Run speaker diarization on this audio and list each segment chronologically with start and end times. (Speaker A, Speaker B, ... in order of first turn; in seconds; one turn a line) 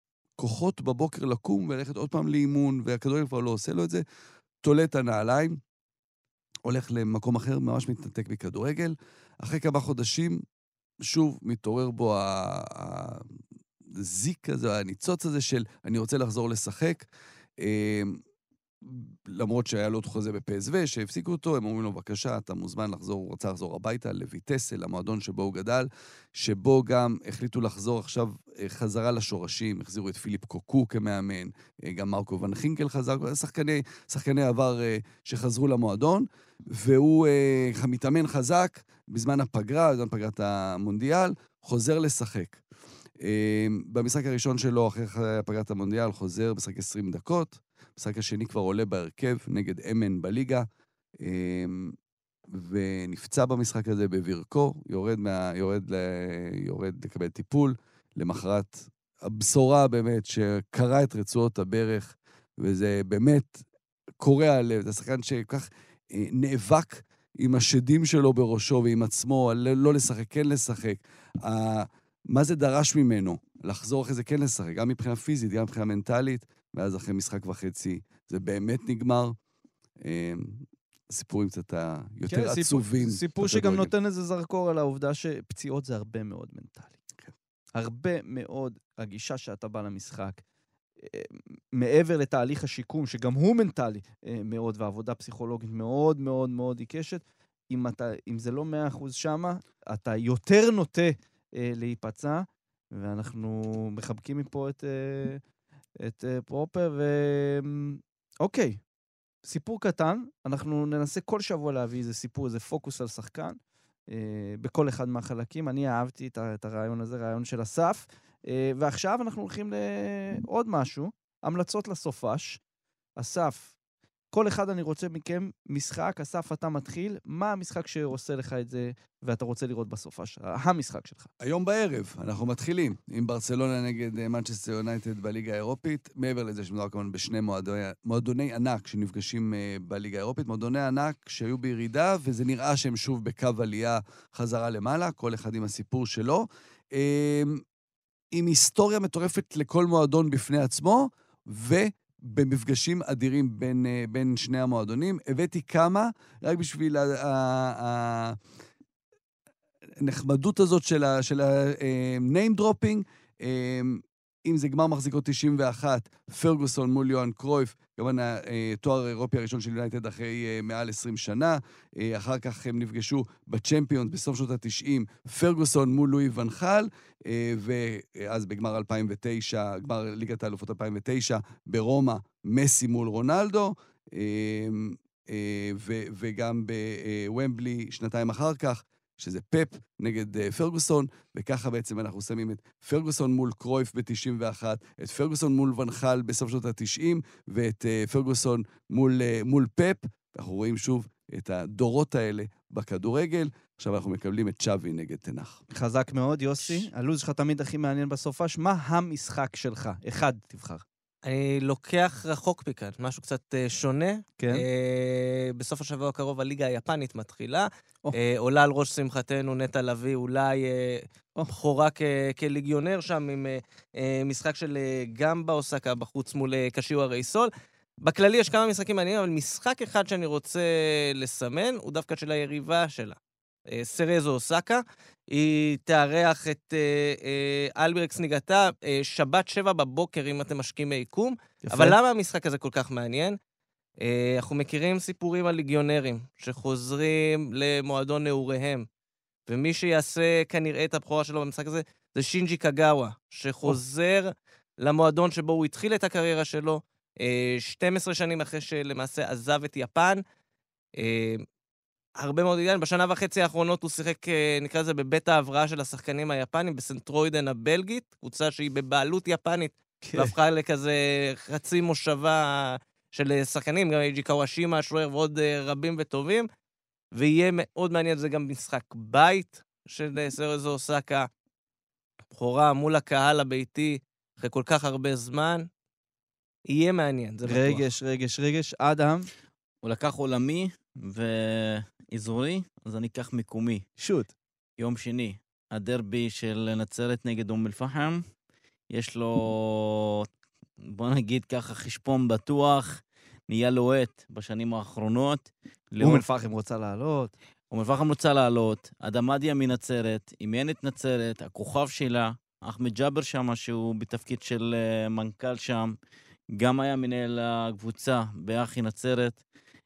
Speaker A: 0.4-4.0
Speaker A: 4.6-5.6
Speaker A: 6.7-10.4
Speaker A: 11.0-13.3
Speaker A: 13.9-17.1
Speaker A: 17.6-18.2
Speaker A: 18.8-42.6
Speaker A: 43.2-50.7
Speaker A: 51.2-52.0
Speaker A: 52.5-63.6
Speaker A: 64.2-79.3
Speaker A: 80.0-83.9
Speaker B: 82.3-87.0
Speaker B: 87.7-90.4
Speaker B: 91.0-105.4
Speaker B: 106.0-108.8
Speaker B: 109.4-113.6
Speaker B: 114.1-122.6
Speaker B: 123.2-123.7
Speaker B: 124.3-131.3
Speaker A: 131.4-147.6
Speaker A: 148.3-158.4
Speaker A: 160.0-205.6
Speaker B: 205.7-210.8
Speaker C: 211.2-227.5
Speaker B: 214.4-214.6
Speaker C: 228.0-233.2
Speaker C: 233.7-243.4
Speaker B: 241.7-241.9
Speaker C: 244.0-248.9
Speaker C: 249.5-260.2
Speaker C: 261.0-261.4
Speaker C: 262.2-276.5
Speaker B: 270.0-270.3
Speaker C: 277.1-281.3
Speaker C: 282.3-285.6
Speaker C: 286.7-287.8
Speaker B: 287.4-289.3
Speaker D: 289.8-293.9
Speaker B: 294.0-294.3
Speaker D: 294.8-298.2
Speaker D: 298.9-300.3
Speaker D: 300.9-306.2
Speaker B: 306.0-307.3
Speaker D: 307.7-315.9
Speaker D: 316.5-319.4